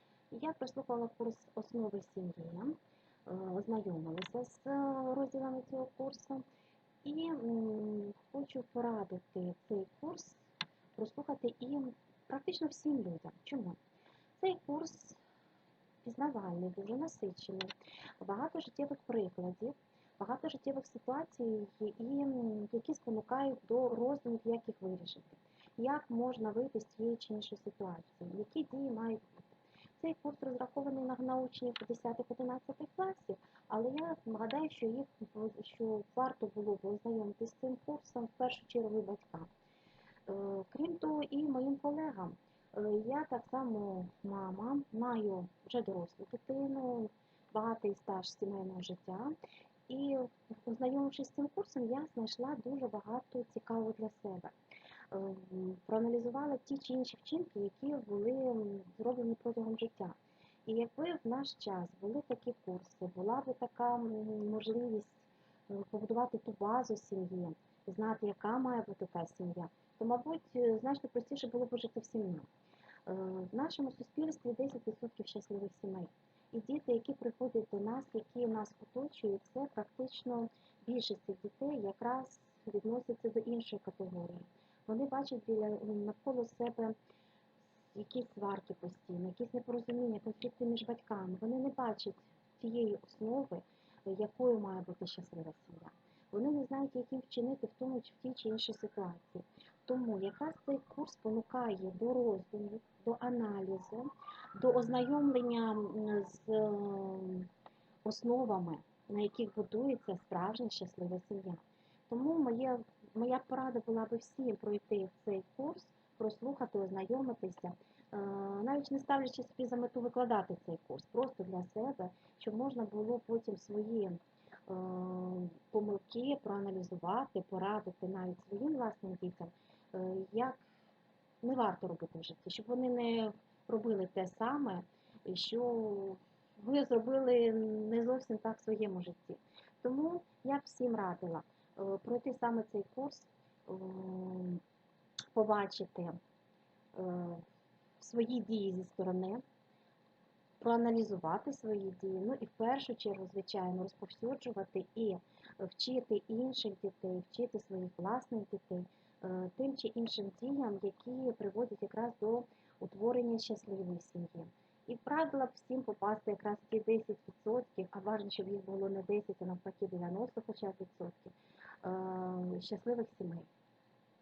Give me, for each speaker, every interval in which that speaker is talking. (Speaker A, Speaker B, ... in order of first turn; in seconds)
Speaker A: 0.3-6.4, 7.0-10.4, 10.9-13.8, 14.4-15.2, 16.0-29.4, 30.0-39.5, 40.3-49.4, 49.9-54.5, 55.1-72.5, 73.0-86.9, 87.9-107.5, 108.0-130.6, 131.4-144.6, 145.3-146.2, 146.9-147.4, 148.0-149.4, 150.6-173.5